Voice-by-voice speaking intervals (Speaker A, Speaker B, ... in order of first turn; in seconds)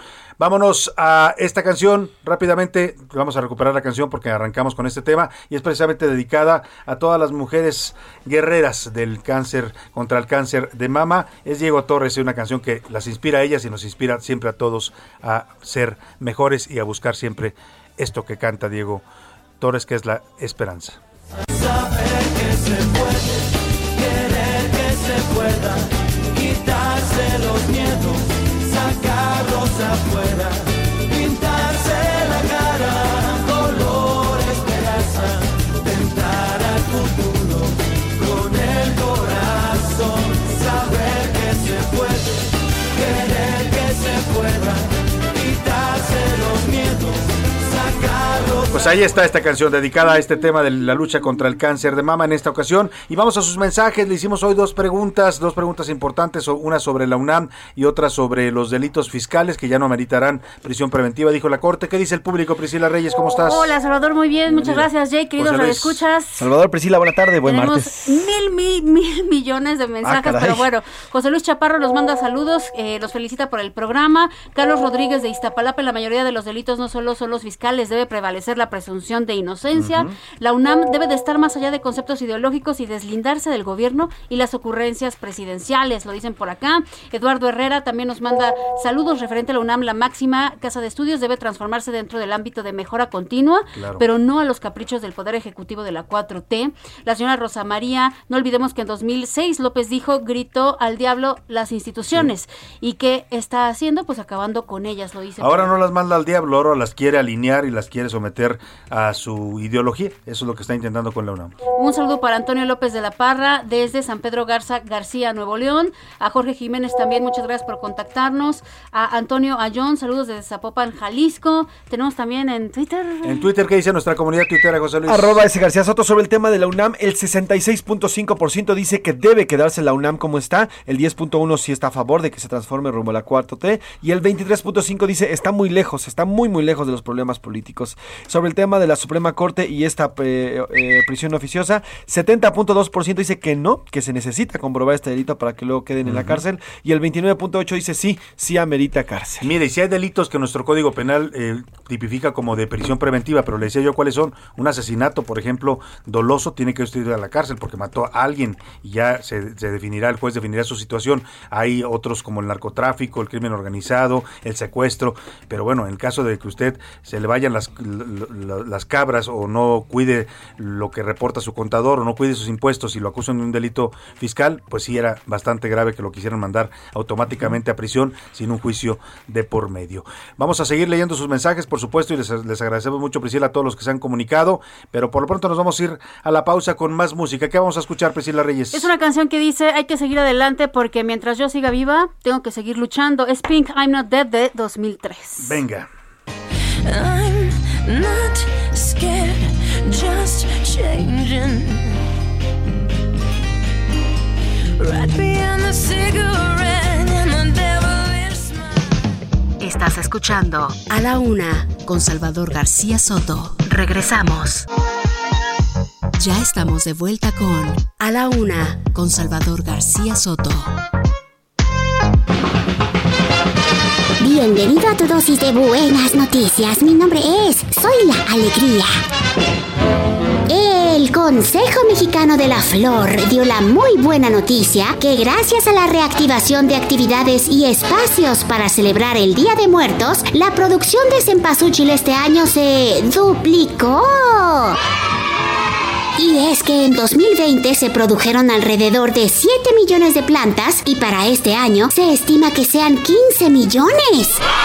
Speaker A: 0.4-19.0, 19.6-21.0, 48.7-63.7, 64.5-66.0, 79.7-80.1, 93.8-94.0, 105.4-111.5, 123.2-125.4, 146.1-146.4, 149.4-188.9, 195.4-195.9
Speaker B: 21.6-23.4, 23.9-42.4, 42.9-48.8, 196.9-201.9, 204.8-208.7
Speaker C: 63.5-66.5, 67.4-105.7, 111.8-123.5, 188.7-195.5
Speaker D: 66.3-68.2, 70.0-70.7, 125.1-149.5
Speaker E: 209.6-214.7, 216.2-220.7
Speaker F: 224.2-228.9, 230.5-244.8, 246.2-254.4